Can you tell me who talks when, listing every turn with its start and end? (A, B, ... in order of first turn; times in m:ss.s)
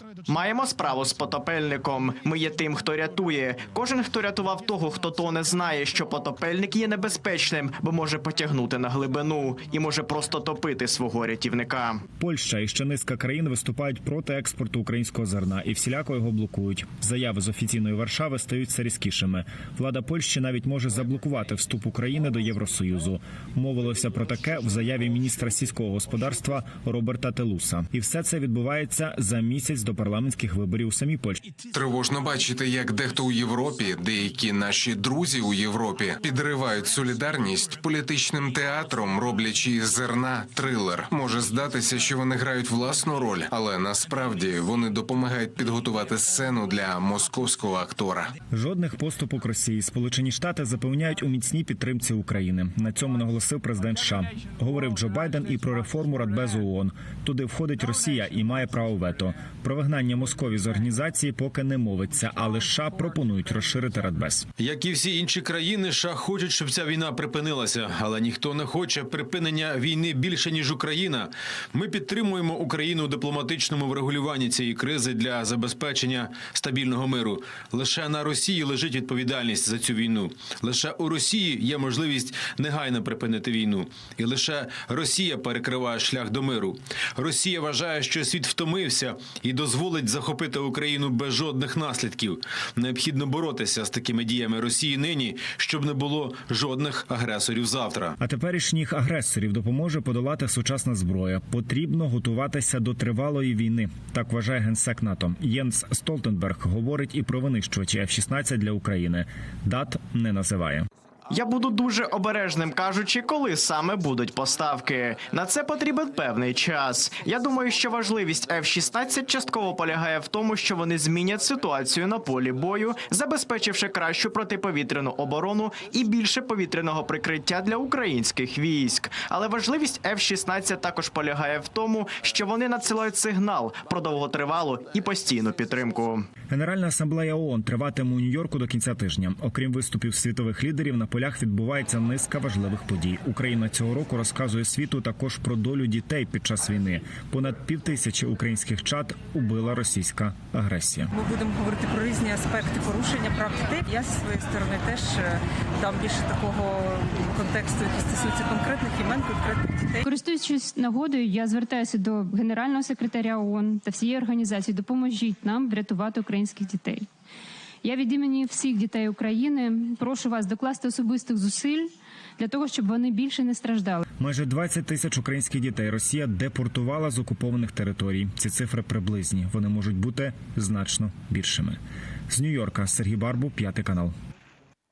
0:00.3-0:12.0 A
0:12.2-0:31.5 B
0:31.7-0:48.3 C
0:48.5-1:04.5 B
1:04.6-1:38.2 D
1:38.2-1:50.9 B
1:51.3-2:16.3 A
2:16.5-2:31.1 B
2:31.1-2:40.0 E
2:40.0-2:47.1 F
2:47.8-2:54.0 F
2:54.2-3:01.8 B
3:02.3-3:04.1 B